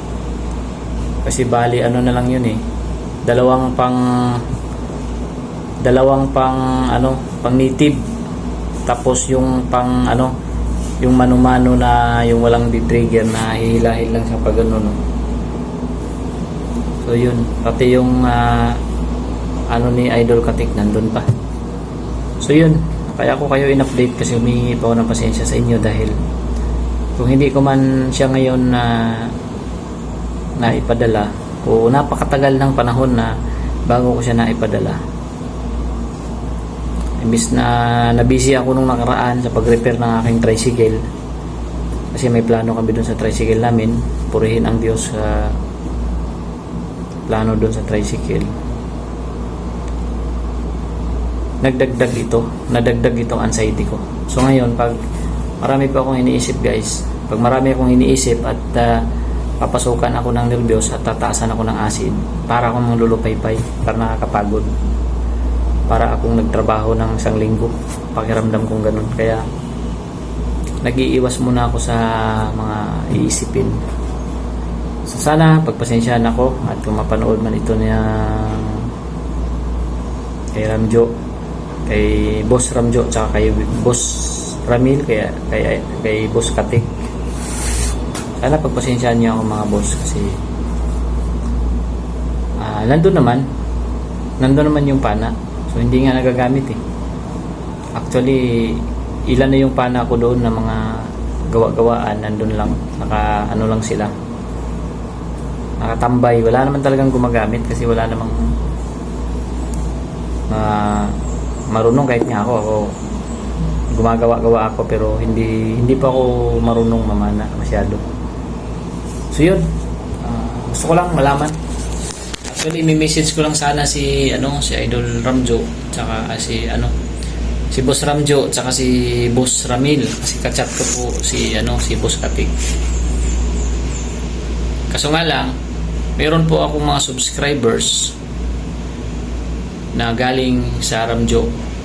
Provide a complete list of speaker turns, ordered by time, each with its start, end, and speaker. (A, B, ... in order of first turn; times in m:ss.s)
0:01.2-0:02.6 A
0:03.2-0:04.4 A
0:05.8-0:08.0 A
0:08.8-0:10.3 A
0:11.0-0:15.0 A
0:17.0-0:18.8 A
0:19.7-0:21.3 A
0:22.4-0:26.2 A
0:27.2-0:29.3 A
0:30.6-0:33.3 A
0:33.9-0:35.0 A
0:37.2-0:41.0 A
0:42.1-0:45.6 A
0:47.3-0:48.5 A
0:51.6-0:55.0 A
0:55.6-0:59.0 A
0:59.6-1:04.7 A
1:05.9-1:09.4 A
1:10.8-1:13.8 A
1:15.1-1:18.9 A
1:20.5-1:21.1 A
1:21.9-1:26.9 A
1:28.4-1:30.4 A
1:32.6-1:33.4 A
1:34.4-1:36.8 A
1:38.0-1:44.1 A
1:45.8-1:48.5 A
1:50.5-1:51.2 A
1:51.7-1:52.9 A
1:53.9-1:58.0 A
1:59.3-1:59.6 A
2:00.2-2:01.5 A
2:02.5-2:06.9 A
2:07.7-2:12.5 A
2:14.9-2:15.5 A
2:16.2-2:18.1 A
2:19.9-2:21.5 A